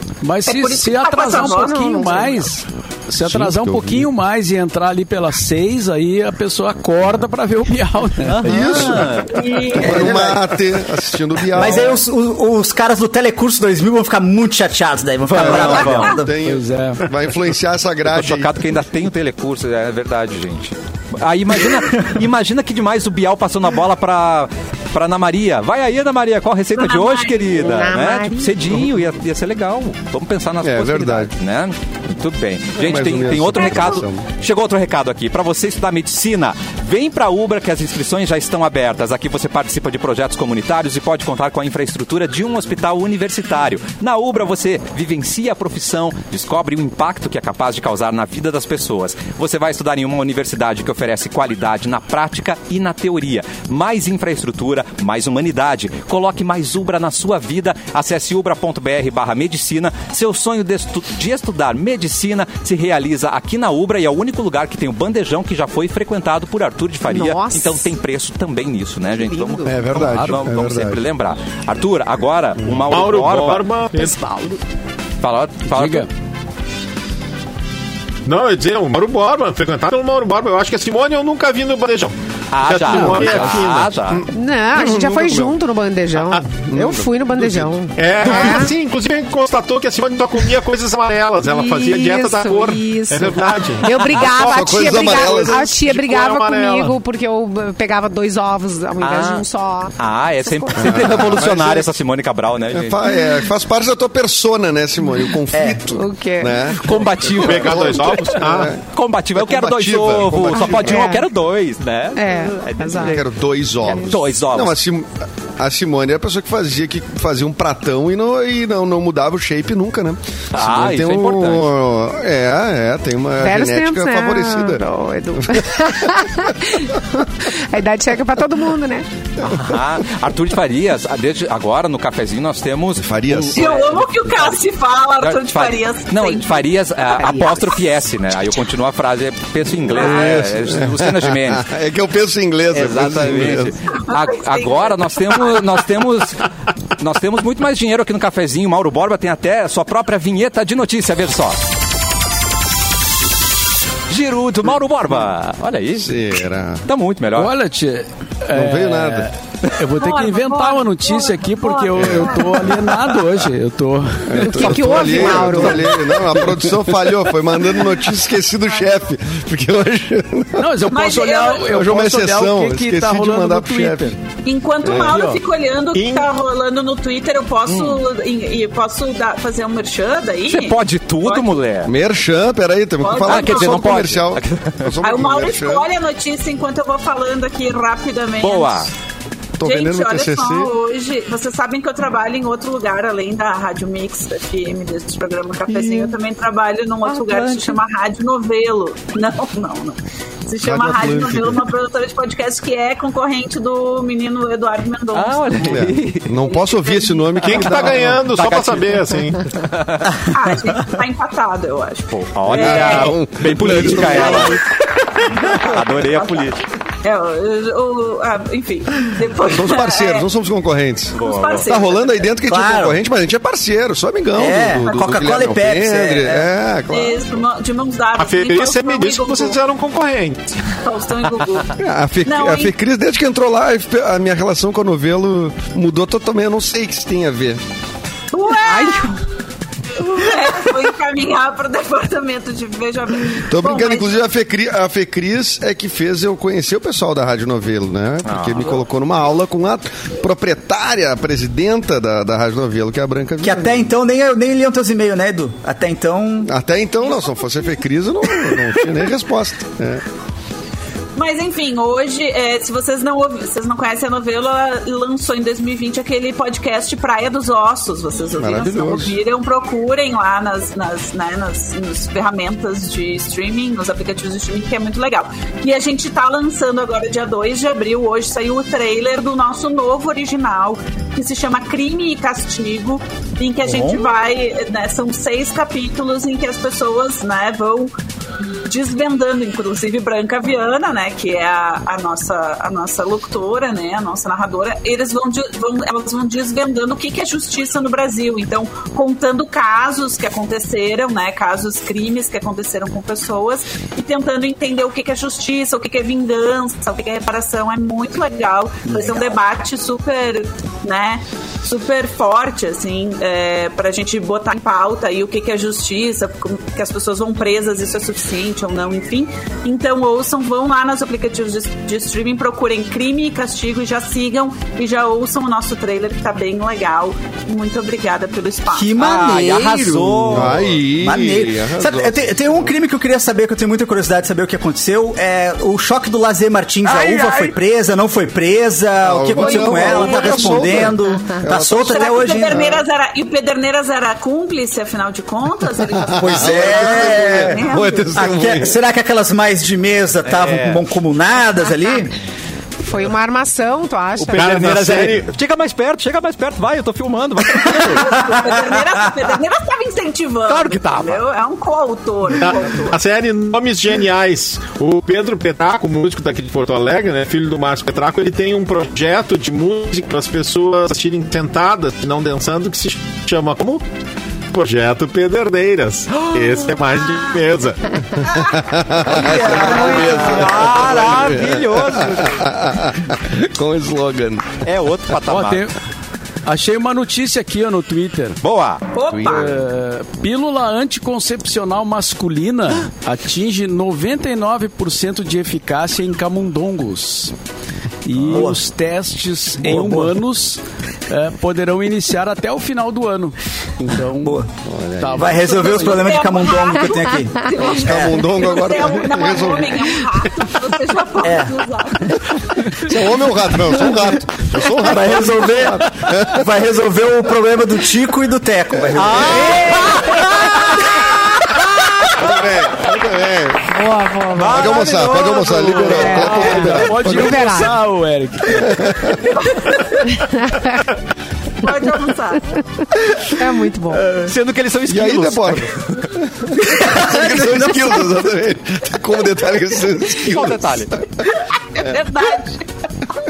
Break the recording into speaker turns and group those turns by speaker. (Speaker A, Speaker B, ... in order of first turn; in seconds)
Speaker A: 0.2-9.0, 16.4-17.0, 70.0-70.3, 75.7-76.1, 83.2-83.6, 157.4-165.7, 170.6-174.2, 175.1-175.4, 385.3-385.8, 386.4-388.4, 389.2-397.3, 398.0-404.4, 405.0-406.1, 419.5-420.2, 426.2-428.9
Speaker B: 0.5-2.4, 9.2-10.2, 26.7-27.8, 33.5-34.0, 133.5-136.8, 144.1-145.7, 159.9-162.8, 170.9-171.8, 174.4-181.6, 183.0-183.8, 185.0-188.9, 189.6-205.9, 206.5-206.8, 210.3-213.2, 214.0-214.8, 215.4-216.5, 217.0-220.3, 221.2-222.2, 226.9-229.6, 230.8-231.7, 232.2-232.7, 238.3-239.2, 239.9-244.2, 261.1-287.9, 288.6-329.0, 337.0-337.2, 340.0-340.3, 341.7-348.1, 357.8-363.0, 388.9-389.6, 405.6-412.2, 429.3-430.1, 431.6-432.5, 441.8-442.6
Speaker C: 1.4-2.4, 27.5-28.6, 67.1-67.9, 69.2-69.9, 74.0-74.6, 84.3-88.7, 91.4-101.3, 105.9-106.7, 110.5-111.2, 112.2-113.2, 113.9-114.1, 123.4-129.1, 137.0-137.8, 164.4-166.2, 238.8-239.2, 352.8-354.5, 423.7-424.8, 425.8-427.7, 430.1-430.8, 432.8-434.1
Speaker D: 3.2-4.1, 8.4-11.9, 15.3-18.6, 30.6-31.3, 32.8-34.2, 69.7-71.0, 84.1-85.6, 86.7-87.7, 94.2-95.7, 100.7-101.9, 102.7-108.8, 109.3-111.1, 112.9-124.8, 125.3-126.4, 133.0-133.8, 139.8-143.7, 156.0-156.8, 158.5-159.3, 162.0-162.4, 164.2-170.7, 171.7-174.2, 174.8-175.2, 181.8-185.9, 189.6-190.7, 200.6-201.6, 205.6-208.2, 212.5-214.6, 219.4-227.3, 231.8-237.6, 243.5-253.9, 256.4-260.0, 268.4-269.1, 330.3-332.7, 339.0-341.9, 346.0-348.8, 378.2-384.5, 389.1-389.5, 404.6-405.3, 407.6-409.9, 412.7-416.6, 422.1-423.7, 424.5-427.7, 428.6-429.2, 434.9-441.0
Speaker E: 8.3-9.8, 15.3-16.1, 18.1-73.7, 75.2-76.1, 82.5-84.2, 99.0-99.4, 100.0-103.0, 106.8-113.2, 113.8-114.8, 120.5-121.7, 129.4-134.4, 135.2-141.7, 142.7-151.6, 154.1-156.3, 156.8-157.5, 177.7-178.0, 180.5-181.9, 183.2-184.9, 188.4-188.9, 195.7-196.2, 197.0-197.8, 205.1-206.5, 207.2-210.2, 212.1-214.6, 215.3-216.6, 221.2-221.7, 248.2-248.8, 329.0-330.8, 350.2-350.9, 354.2-358.4, 360.5-361.2, 379.6-382.5, 384.6-385.7, 388.4-388.9, 418.9-420.6, 422.0-422.5, 424.3-426.4, 434.0-436.0, 440.2-441.0
Speaker F: 9.9-10.4, 11.5-16.3, 105.5-105.8, 222.4-223.0, 224.3-226.5, 253.4-256.5, 283.6-284.0, 308.9-309.4, 328.7-342.8, 346.1-352.1, 357.7-359.0, 379.1-380.5, 398.2-398.6, 399.6-400.1, 404.2-404.5, 405.1-408.4, 411.2-411.6, 414.8-419.8, 436.7-438.1
Speaker G: 72.8-74.2, 78.2-83.9, 88.0-97.0, 107.4-108.7, 175.9-176.3, 207.4-209.5, 228.2-230.5, 354.3-355.3, 362.3-373.8, 374.5-378.0